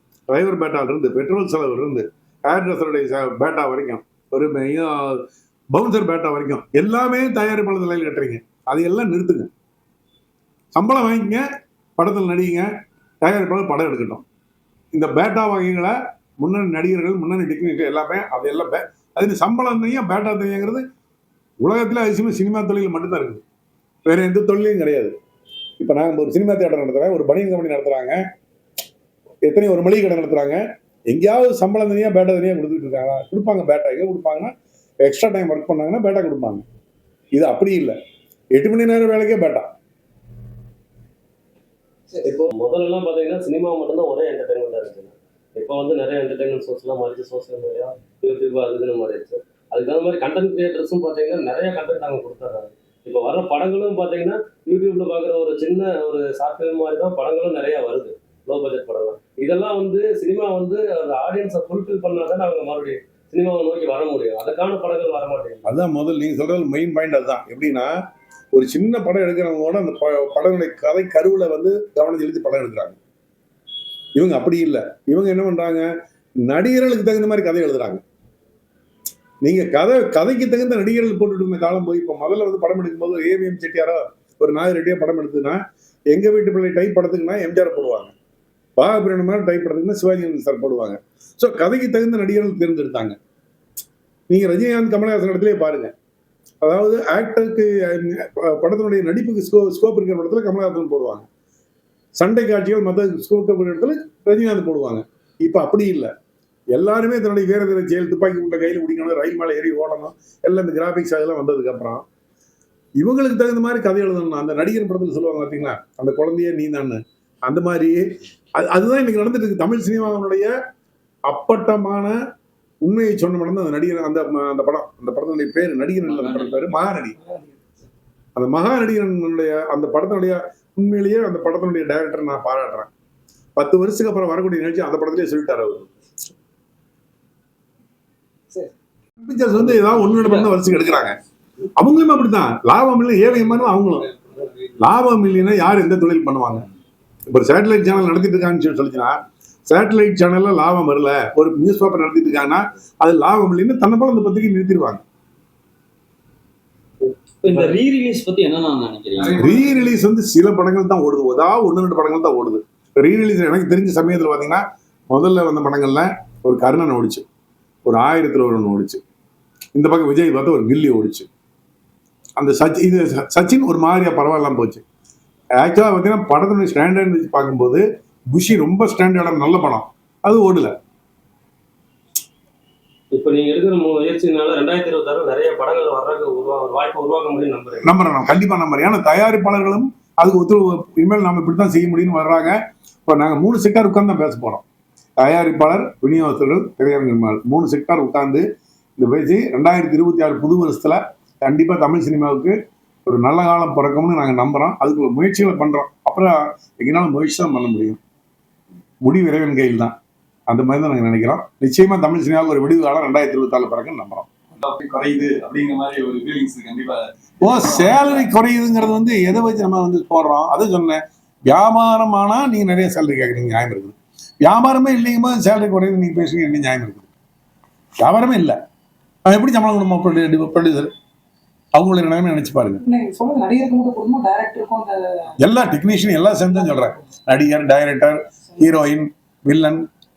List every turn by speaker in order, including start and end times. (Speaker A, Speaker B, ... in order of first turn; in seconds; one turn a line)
Speaker A: 0.3-9.5
Speaker A: 10.8-11.4
Speaker A: 12.0-12.7
Speaker A: 13.2-14.2
Speaker A: 14.9-20.8
Speaker A: 21.6-23.4
Speaker A: 24.1-25.1
Speaker A: 25.8-28.2
Speaker A: 29.4-34.5
Speaker A: 35.0-36.6
Speaker A: 37.3-38.0
Speaker A: 38.5-39.7
Speaker B: 42.1-42.5
Speaker C: 42.2-65.7
Speaker A: 65.7-67.9
Speaker A: 68.5-73.0
Speaker A: 74.2-75.9
Speaker A: 76.4-78.0
Speaker A: 79.4-85.6
Speaker A: 86.1-88.1
Speaker A: 88.8-93.2
Speaker A: 94.3-95.9
Speaker A: 96.6-101.3
Speaker A: 102.2-106.1
Speaker A: 106.7-112.0
Speaker A: 113.0-118.0
Speaker A: 118.6-120.5
Speaker A: 121.3-122.2
Speaker A: 122.8-127.2
Speaker D: 126.0-126.6
Speaker B: 127.2-127.9
Speaker A: 128.4-132.9
Speaker A: 133.6-135.9
Speaker A: 139.2-141.2
Speaker A: 141.8-144.1
Speaker A: 144.8-146.7
Speaker A: 147.3-155.0
Speaker D: 157.4-159.4
Speaker A: 159.4-167.2
Speaker A: 167.9-169.0
Speaker A: 169.8-171.3
Speaker A: 172.4-174.8
Speaker A: 175.6-180.7
Speaker C: 183.1-187.8
Speaker A: 187.8-194.6
Speaker A: 195.2-198.4
Speaker A: 199.0-202.6
Speaker A: 203.1-208.0
Speaker A: 209.0-209.9
Speaker A: 210.5-214.3
Speaker E: 214.6-218.3
Speaker A: 217.4-227.1
Speaker A: 228.0-228.6
Speaker A: 229.3-230.9
Speaker A: 231.8-232.8
Speaker B: 232.8-235.3
Speaker A: 235.4-239.9
Speaker B: 236.6-237.0